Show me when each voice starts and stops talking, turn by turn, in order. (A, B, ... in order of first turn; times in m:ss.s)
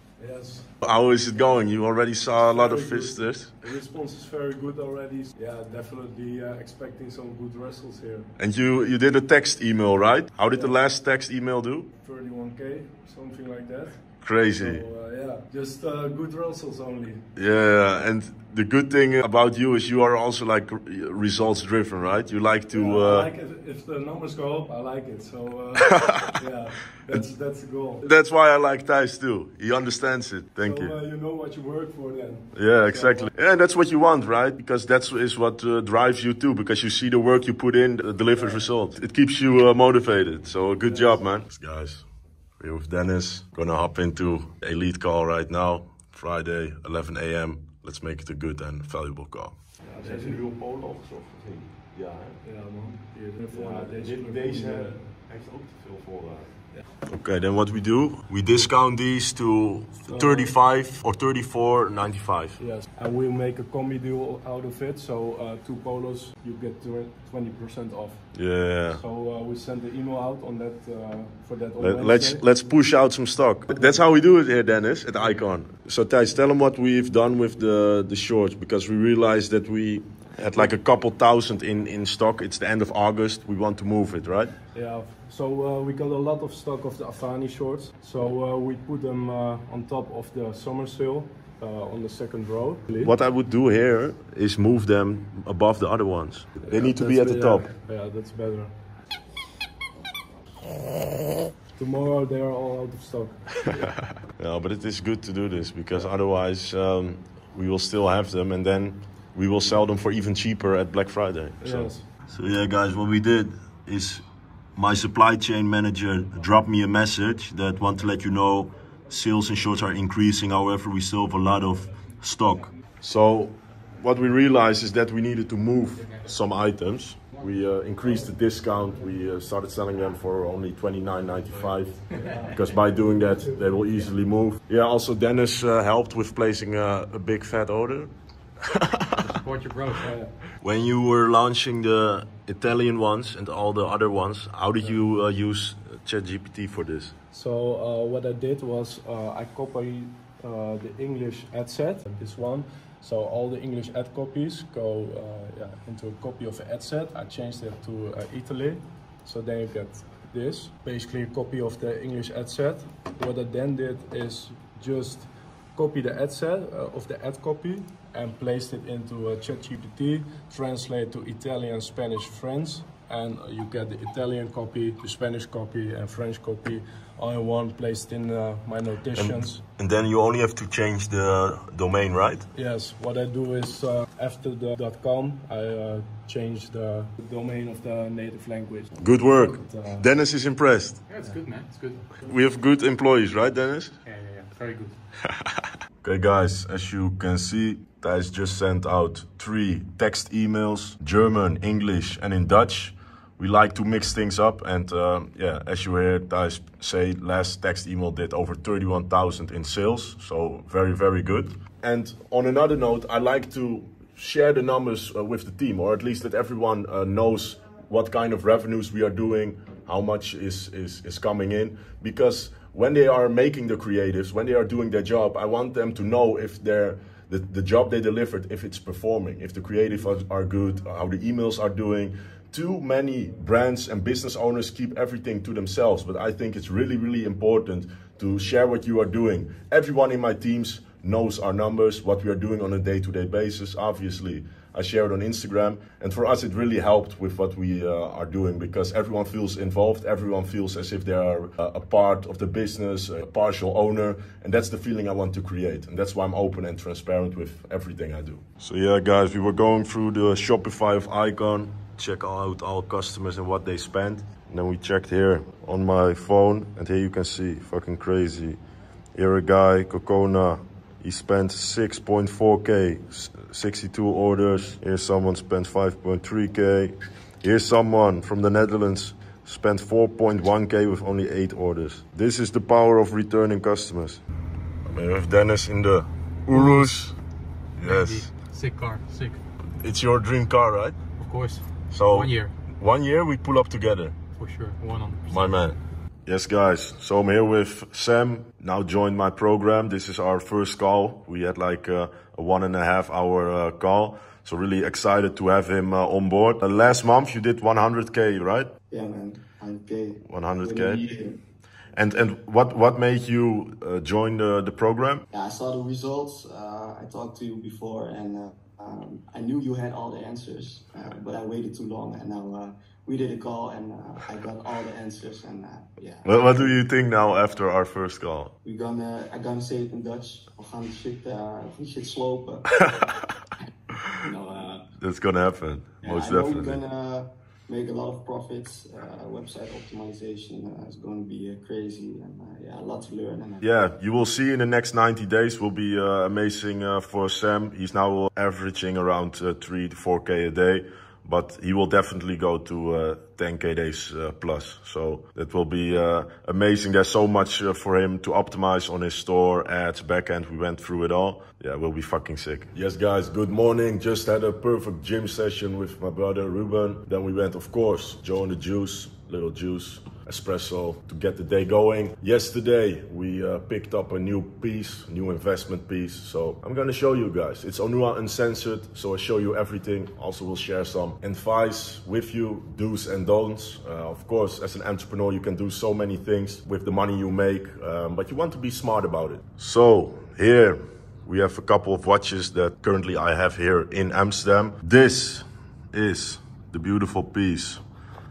0:00.2-0:00.7 A
0:00.8-0:03.5 B
0:02.3-0:08.3 A
0:08.4-0:11.9 B
0:12.0-0:17.3 A
0:14.2-0:14.8 B
0:17.3-0:23.3 B
0:22.7-0:28.1 A
0:25.8-0:26.3 B
0:28.0-0:30.9 B
0:30.6-0:33.3 A
0:32.5-0:42.0 B
0:38.3-0:38.7 A
0:40.8-0:41.3 A
0:42.6-0:52.4 B
0:49.8-0:50.4 A
0:52.4-0:55.0 A
0:53.5-1:02.6 B
1:00.1-1:00.6 A
1:02.6-1:12.6 A
1:08.3-1:09.0 B
1:11.8-1:24.5 B
1:13.7-1:14.0 A
1:24.7-1:33.1 A
1:33.0-1:37.7 B
1:36.6-1:39.0 A
1:41.7-1:44.0 A
1:44.4-1:54.2 B
1:51.6-1:52.1 A
1:54.8-2:18.1 B
2:18.6-2:19.4 B
2:19.2-2:20.1 C
2:20.0-2:20.3 A
2:20.6-2:27.1 B
2:27.3-2:59.6 A
2:59.1-3:02.5 B
3:02.5-3:10.1 A
3:09.0-3:11.0 B
3:11.1-3:12.2 C
3:12.2-3:14.0 B
3:14.0-3:15.0 C
3:16.0-4:28.6 B
4:29.1-4:44.2 B
4:44.8-4:47.1 B
4:46.5-4:46.8 C
4:47.8-4:48.3 B
4:47.8-4:49.4 C
4:49.8-4:51.0 B
4:51.2-4:52.5 C
4:51.9-4:54.2 B
4:54.4-4:55.6 C
4:55.3-5:08.7 B
5:08.9-5:11.4 D
5:10.2-5:11.0 B
5:11.9-5:15.2 B
5:15.3-5:26.8 D
5:26.2-5:28.5 B
5:28.6-5:32.9 D
5:32.7-5:33.2 B
5:34.2-5:34.9 D
5:35.0-5:36.8 B
5:36.0-5:43.7 D
5:43.6-6:37.8 B